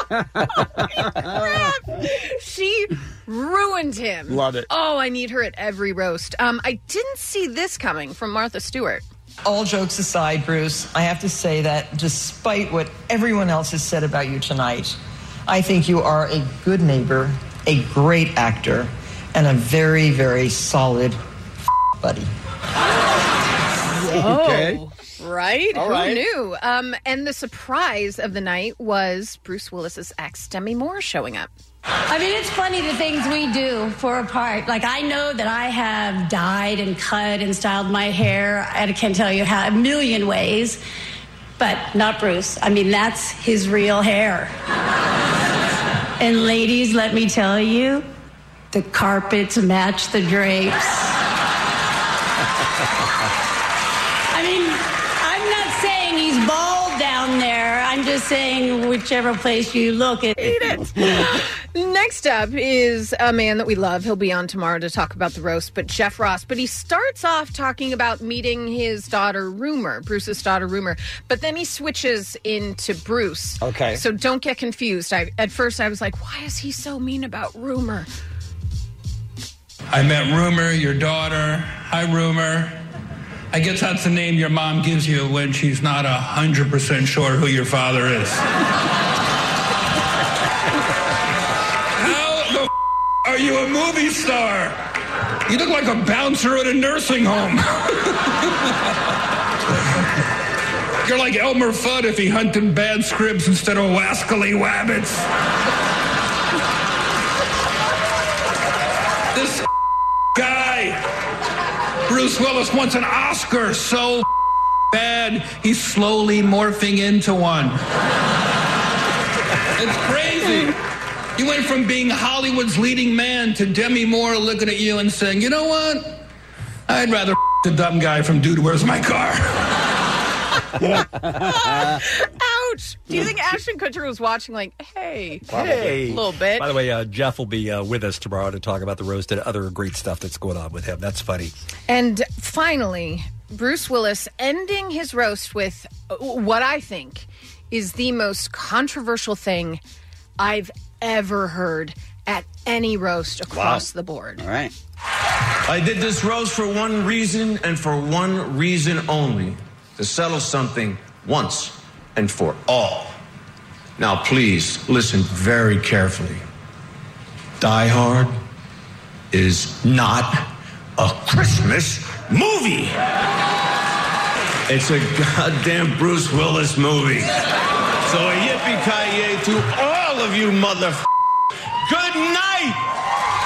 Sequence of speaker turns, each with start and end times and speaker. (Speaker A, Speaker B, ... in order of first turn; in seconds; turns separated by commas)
Speaker A: 0.6-1.7, Speaker B: 1.0-9.1, Speaker A: 4.3-4.6, Speaker C: 9.5-14.9, Speaker C: 15.5-21.1, Speaker B: 24.0-31.5, Speaker A: 24.1-24.8, Speaker A: 25.7-26.2, Speaker D: 32.1-40.8, Speaker D: 41.6-44.5, Speaker D: 46.2-48.0, Speaker D: 48.7-51.1, Speaker D: 54.3-60.5, Speaker B: 60.4-78.1, Speaker A: 73.6-74.0, Speaker E: 79.9-82.8, Speaker E: 83.5-88.4, Speaker E: 92.0-92.7, Speaker E: 93.2-94.8, Speaker E: 95.5-98.5, Speaker E: 101.0-105.2, Speaker E: 109.3-109.6, Speaker E: 110.3-111.0, Speaker E: 112.1-114.2, Speaker E: 114.9-117.8, Speaker E: 119.8-120.8, Speaker E: 121.4-126.2, Speaker E: 126.9-129.7, Speaker B: 131.3-136.7, Speaker A: 131.6-131.9, Speaker F: 135.5-141.6, Speaker B: 141.9-149.8, Speaker B: 150.4-154.4, Speaker A: 153.5-154.7, Speaker G: 155.7-163.1, Speaker G: 164.0-166.4, Speaker G: 167.6-168.3, Speaker G: 169.3-170.4, Speaker G: 171.0-172.9, Speaker G: 174.7-177.3, Speaker G: 178.1-181.0, Speaker G: 181.9-182.8